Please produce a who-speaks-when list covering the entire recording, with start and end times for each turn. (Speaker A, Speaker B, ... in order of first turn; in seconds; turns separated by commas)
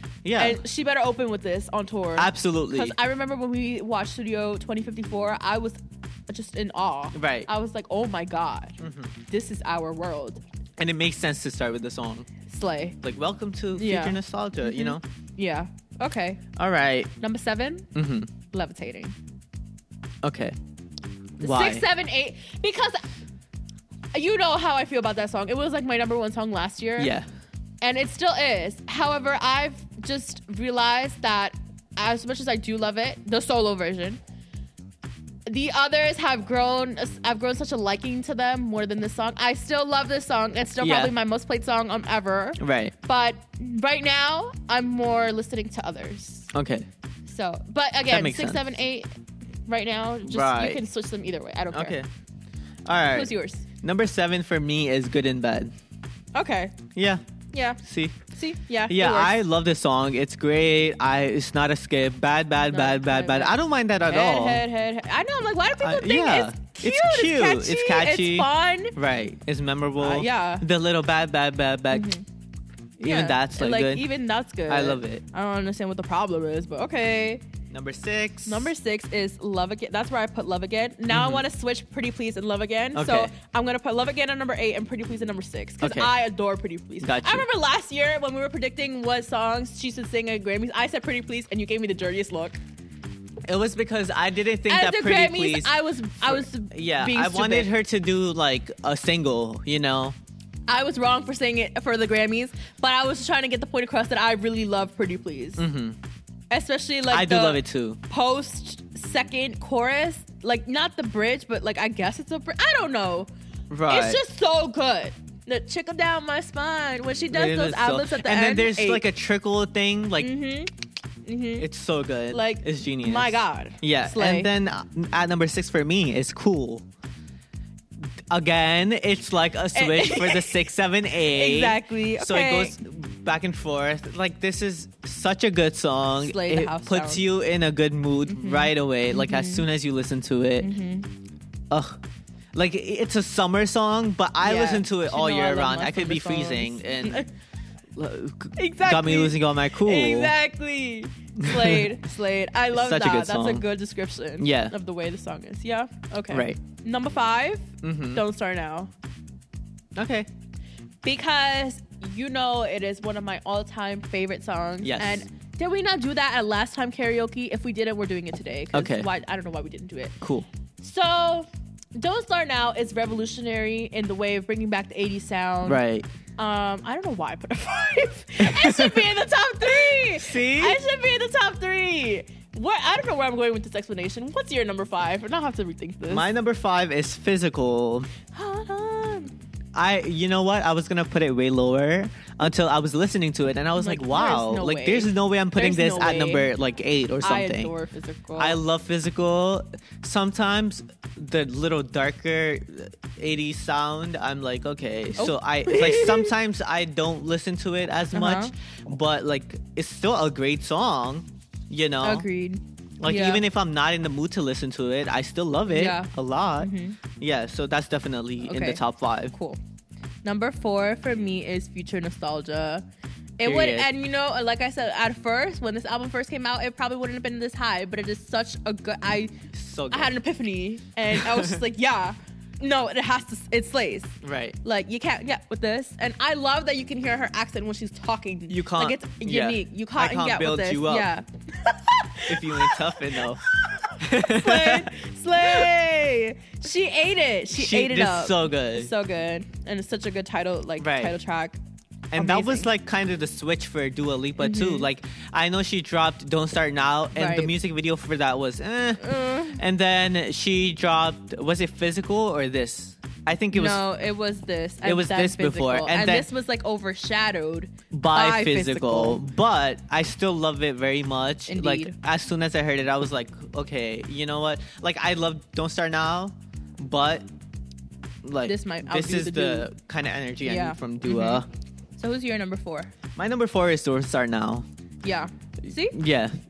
Speaker A: 0.2-0.6, Speaker B: 0.4-8.8, Speaker A: 2.2-2.9, Speaker A: 7.1-7.5, Speaker A: 8.8-9.2, Speaker B: 9.3-10.4, Speaker A: 10.8-12.3, Speaker B: 12.4-13.0, Speaker A: 13.0-15.0, Speaker B: 13.7-16.4, Speaker A: 16.6-17.1, Speaker B: 17.2-17.9, Speaker A: 17.9-18.3, Speaker B: 18.4-19.1, Speaker A: 20.2-20.6, Speaker A: 21.4-21.9, Speaker B: 21.4-23.0, Speaker B: 24.1-27.1, Speaker A: 27.0-27.3, Speaker B: 27.8-34.2, Speaker B: 35.5-46.5, Speaker A: 40.8-41.1, Speaker A: 42.6-42.9, Speaker A: 46.5-46.9, Speaker B: 47.2-49.1, Speaker A: 48.1-48.6, Speaker B: 49.6-51.9, Speaker A: 50.3-50.8, Speaker A: 51.7-52.1, Speaker A: 52.9-55.7, Speaker B: 53.1-53.6, Speaker B: 56.3-56.8, Speaker A: 56.9-57.2, Speaker B: 57.5-59.4, Speaker A: 57.8-58.2, Speaker A: 58.9-64.6, Speaker B: 62.7-68.9, Speaker A: 65.8-72.2, Speaker B: 70.0-70.7, Speaker B: 71.9-72.2, Speaker A: 73.0-74.1, Speaker B: 73.0-77.4, Speaker A: 74.7-75.2, Speaker A: 77.7-78.7, Speaker B: 78.4-92.6, Speaker A: 81.1-81.4, Speaker A: 82.9-83.3, Speaker A: 85.8-86.1, Speaker A: 87.0-87.4, Speaker A: 93.5-100.2, Speaker B: 94.7-97.7, Speaker B: 100.7-105.6, Speaker A: 105.6-106.0, Speaker B: 106.5-113.3, Speaker A: 107.1-108.0, Speaker A: 113.7-114.2, Speaker B: 113.9-119.1, Speaker A: 117.3-120.3, Speaker B: 120.2-120.7, Speaker B: 121.2-121.7, Speaker A: 121.6-126.8, Speaker B: 122.3-124.5, Speaker A: 128.3-140.7, Speaker B: 129.7-130.6, Speaker B: 131.2-132.7, Speaker B: 136.2-137.2, Speaker B: 138.3-139.7, Speaker B: 140.6-141.1, Speaker A: 141.7-142.0, Speaker A: 142.5-147.3, Speaker B: 144.4-147.3, Speaker A: 147.9-150.3, Speaker B: 148.6-158.9, Speaker A: 151.4-151.9, Speaker A: 152.7-153.7, Speaker A: 154.4-154.7, Speaker A: 156.3-156.6, Speaker A: 157.8-158.2, Speaker A: 159.9-160.3, Speaker B: 161.0-170.2, Speaker A: 164.8-165.3, Speaker A: 168.7-169.1, Speaker A: 170.2-170.5, Speaker B: 170.8-175.8, Speaker A: 175.7-176.1, Speaker B: 176.4-186.3, Speaker A: 178.4-179.0, Speaker A: 180.0-180.8, Speaker A: 186.1-188.1, Speaker B: 188.3-189.3, Speaker A: 189.7-197.7, Speaker B: 193.8-196.5, Speaker B: 197.2-198.6, Speaker A: 198.4-212.3, Speaker B: 205.2-206.3, Speaker B: 208.1-208.5, Speaker B: 212.0-213.4, Speaker A: 213.0-219.3, Speaker B: 215.7-217.0, Speaker B: 218.4-219.6, Speaker B: 220.2-222.8, Speaker B: 223.4-229.3, Speaker A: 223.4-223.9, Speaker A: 229.5-230.2, Speaker B: 229.9-251.6, Speaker A: 231.1-231.6, Speaker A: 234.2-234.6, Speaker A: 238.5-241.1, Speaker A: 242.3-243.4, Speaker A: 244.0-244.9, Speaker A: 247.5-248.9, Speaker A: 250.8-251.1, Speaker A: 252.1-263.8, Speaker B: 252.2-252.7, Speaker B: 254.4-254.9, Speaker B: 257.1-257.5, Speaker B: 259.0-259.6, Speaker B: 263.5-269.2, Speaker A: 264.8-266.3, Speaker A: 267.9-277.3, Speaker B: 271.5-271.9, Speaker A: 278.2-281.5, Speaker B: 278.4-279.7, Speaker B: 280.4-281.4, Speaker B: 282.0-282.9, Speaker A: 283.1-284.6, Speaker B: 285.0-285.9, Speaker A: 285.9-286.4